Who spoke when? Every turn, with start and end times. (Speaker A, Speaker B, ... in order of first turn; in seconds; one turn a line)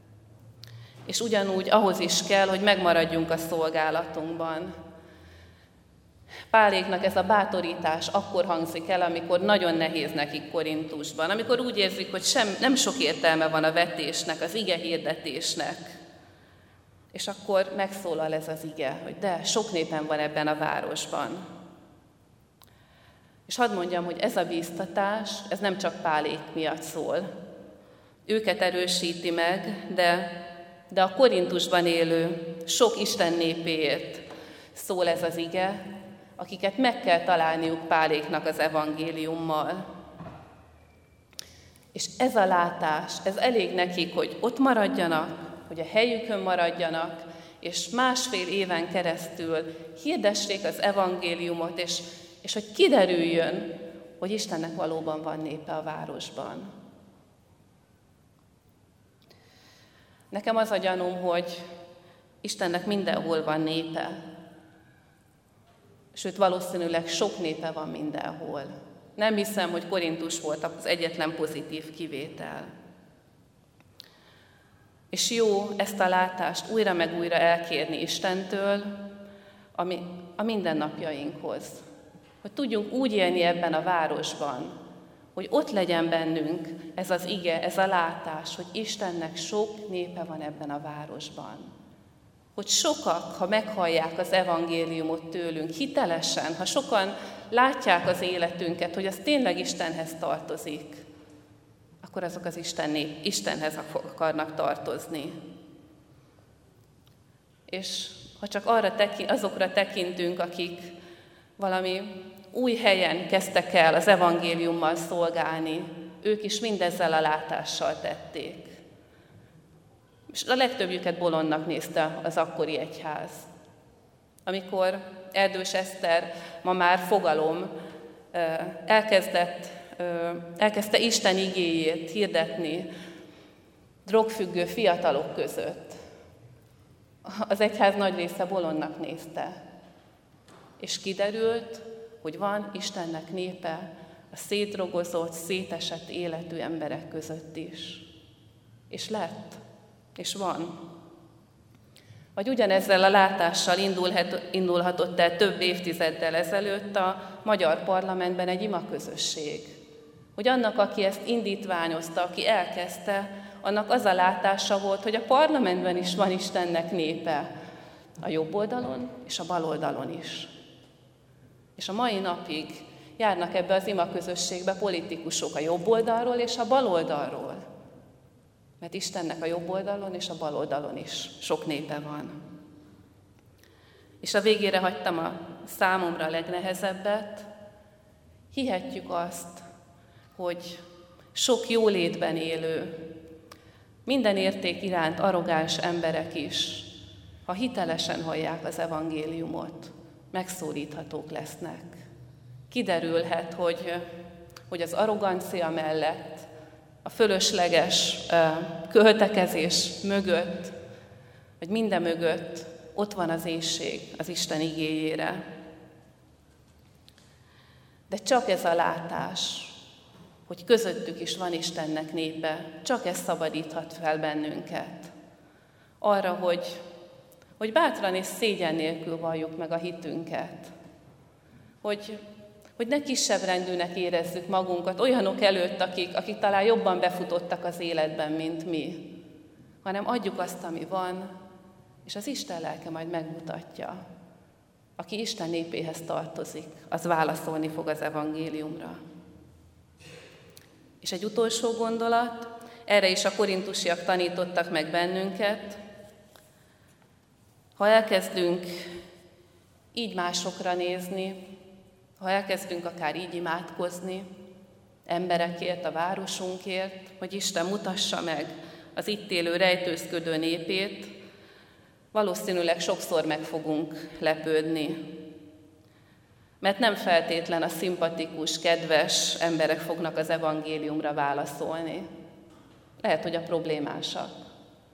Speaker A: 1.1-4.8
Speaker A: 6.5-16.0
Speaker A: 17.1-21.5
Speaker A: 23.5-27.3
Speaker A: 28.3-30.3
Speaker A: 30.9-35.8
Speaker A: 36.4-39.9
Speaker A: 41.9-56.7
Speaker A: 60.3-61.6
Speaker A: 62.4-64.2
Speaker A: 66.1-72.7
Speaker A: 75.1-79.0
Speaker A: 79.8-81.8
Speaker A: 82.4-84.8
Speaker A: 85.3-91.7
Speaker A: 92.6-101.0
Speaker A: 102.0-105.4
Speaker A: 107.7-110.9
Speaker A: 111.6-118.8
Speaker A: 120.3-123.5
Speaker A: 124.5-127.7
Speaker A: 128.3-132.9
Speaker A: 134.1-136.0
Speaker A: 137.3-139.6
Speaker A: 140.8-148.1
Speaker A: 148.9-149.6
Speaker A: 150.2-150.8
Speaker A: 152.4-159.8
Speaker A: 160.4-167.5
Speaker A: 168.2-170.5
Speaker A: 171.8-177.6
Speaker A: 178.8-182.4
Speaker A: 184.2-187.5
Speaker A: 188.5-189.6
Speaker A: 190.3-190.8
Speaker A: 191.3-193.0
Speaker A: 194.1-196.9
Speaker A: 197.5-202.0
Speaker A: 202.7-204.1
Speaker A: 204.7-206.5
Speaker A: 207.0-210.8
Speaker A: 211.6-215.4
Speaker A: 218.1-219.8
Speaker A: 220.5-225.1
Speaker A: 226.0-226.8
Speaker A: 227.6-230.7
Speaker A: 231.8-232.2
Speaker A: 232.8-239.1
Speaker A: 239.8-241.3
Speaker A: 242.1-244.0
Speaker A: 245.0-249.0
Speaker A: 251.0-255.8
Speaker A: 257.8-258.9
Speaker A: 259.9-261.4
Speaker A: 262.2-264.3
Speaker A: 265.1-271.1
Speaker A: 272.1-275.1
Speaker A: 276.6-282.1
Speaker A: 283.0-284.4